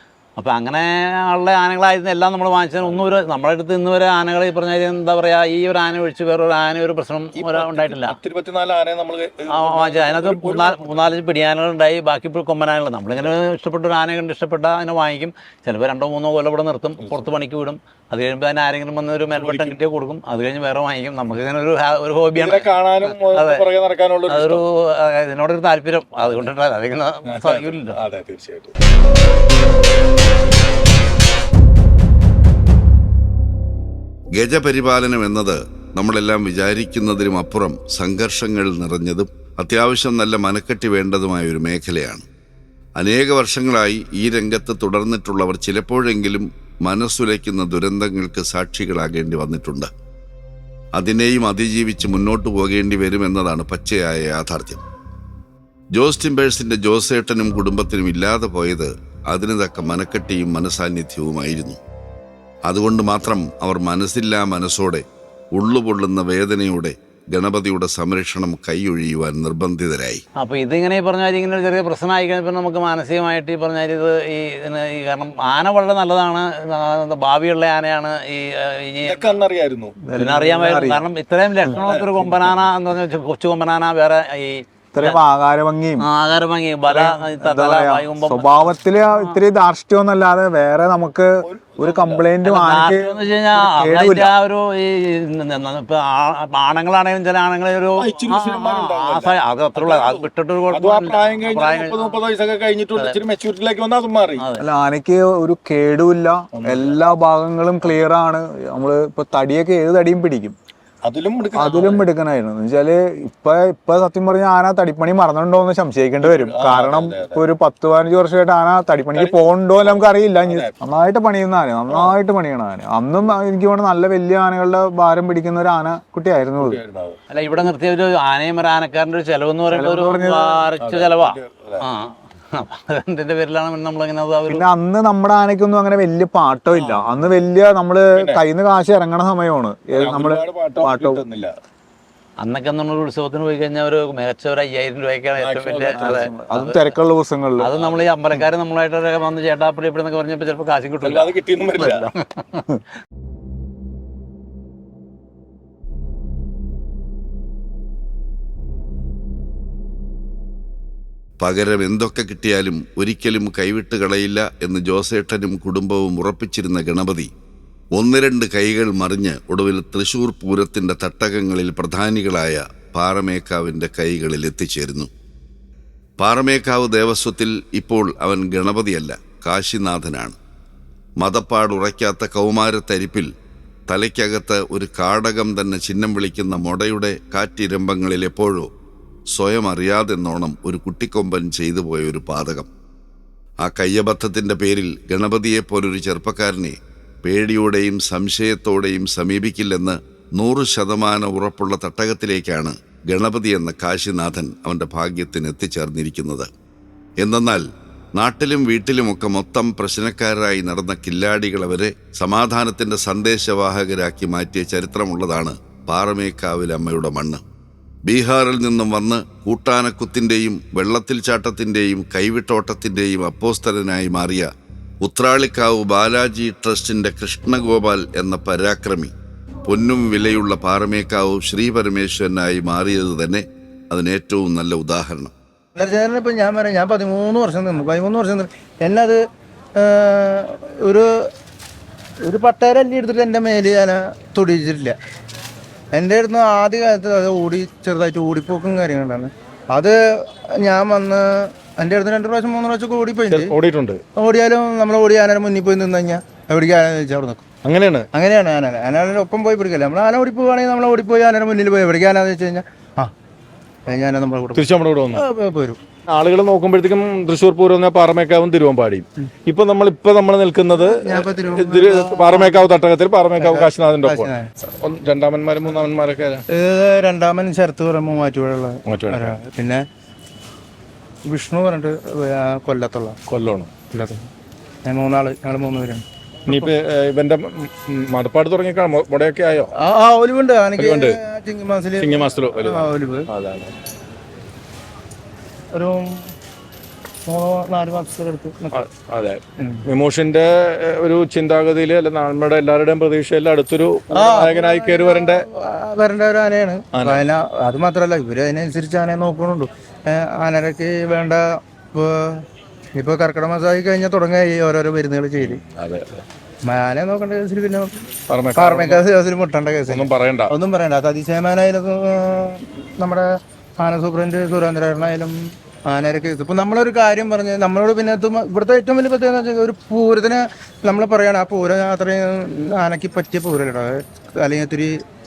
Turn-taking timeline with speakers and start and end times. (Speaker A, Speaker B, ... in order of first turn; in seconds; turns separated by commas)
Speaker A: 0.4-8.2, Speaker B: 7.4-11.0, Speaker A: 9.5-23.6, Speaker B: 19.4-19.8, Speaker B: 22.4-24.6, Speaker A: 24.3-28.0, Speaker B: 27.3-28.7, Speaker C: 34.3-42.2, Speaker C: 43.0-49.9, Speaker C: 51.0-54.8, Speaker C: 55.9-61.8, Speaker C: 62.7-70.2, Speaker A: 70.4-79.3, Speaker B: 79.0-79.9, Speaker D: 80.1-81.1, Speaker A: 80.2-85.2, Speaker B: 81.8-82.5, Speaker D: 84.9-86.1, Speaker A: 86.0-89.4, Speaker D: 86.9-94.3, Speaker B: 91.4-92.2, Speaker A: 92.4-102.2, Speaker B: 98.0-104.4, Speaker D: 104.6-110.6, Speaker B: 106.5-107.0, Speaker B: 111.0-112.1, Speaker D: 111.5-126.8, Speaker B: 116.2-117.4, Speaker B: 119.2-120.7, Speaker B: 121.9-122.2, Speaker B: 126.6-127.2, Speaker A: 127.3-134.7, Speaker D: 129.7-130.6, Speaker B: 130.8-131.9, Speaker D: 134.5-141.2, Speaker B: 136.7-137.1, Speaker B: 138.2-138.4, Speaker B: 139.9-141.5, Speaker A: 142.4-146.9, Speaker B: 145.4-146.3, Speaker D: 145.9-147.7, Speaker A: 147.6-152.7, Speaker B: 147.7-148.0, Speaker B: 151.0-152.1, Speaker C: 161.4-167.3, Speaker C: 167.9-175.1, Speaker C: 176.2-180.4, Speaker C: 181.2-183.3, Speaker C: 183.9-188.7, Speaker C: 189.3-192.7, Speaker C: 193.6-206.5, Speaker C: 207.2-207.7, Speaker C: 208.2-217.4, Speaker C: 218.1-224.5, Speaker C: 225.0-229.1, Speaker C: 229.7-235.3, Speaker E: 235.8-239.2, Speaker E: 239.8-241.1, Speaker E: 242.3-245.0, Speaker E: 246.0-253.6, Speaker B: 253.3-254.0, Speaker E: 254.2-257.4, Speaker B: 257.6-258.1, Speaker E: 258.1-263.1, Speaker E: 263.9-265.8, Speaker B: 264.6-265.2, Speaker B: 266.1-274.3, Speaker E: 270.8-272.7, Speaker E: 273.4-274.5, Speaker B: 274.8-276.4, Speaker E: 276.5-279.8, Speaker B: 278.9-279.4, Speaker E: 281.3-283.2, Speaker B: 283.3-283.7, Speaker E: 283.9-284.3, Speaker E: 284.9-286.7, Speaker B: 286.5-289.7, Speaker E: 289.8-293.3, Speaker B: 290.8-291.2, Speaker B: 292.0-293.7, Speaker E: 295.7-296.1, Speaker E: 297.3-298.8, Speaker B: 298.7-305.4, Speaker E: 304.1-312.4, Speaker B: 306.9-307.3, Speaker E: 313.0-315.6, Speaker B: 315.4-316.2, Speaker E: 316.7-317.9, Speaker B: 318.3-319.0, Speaker E: 318.6-325.4, Speaker B: 319.9-320.5, Speaker E: 325.9-335.0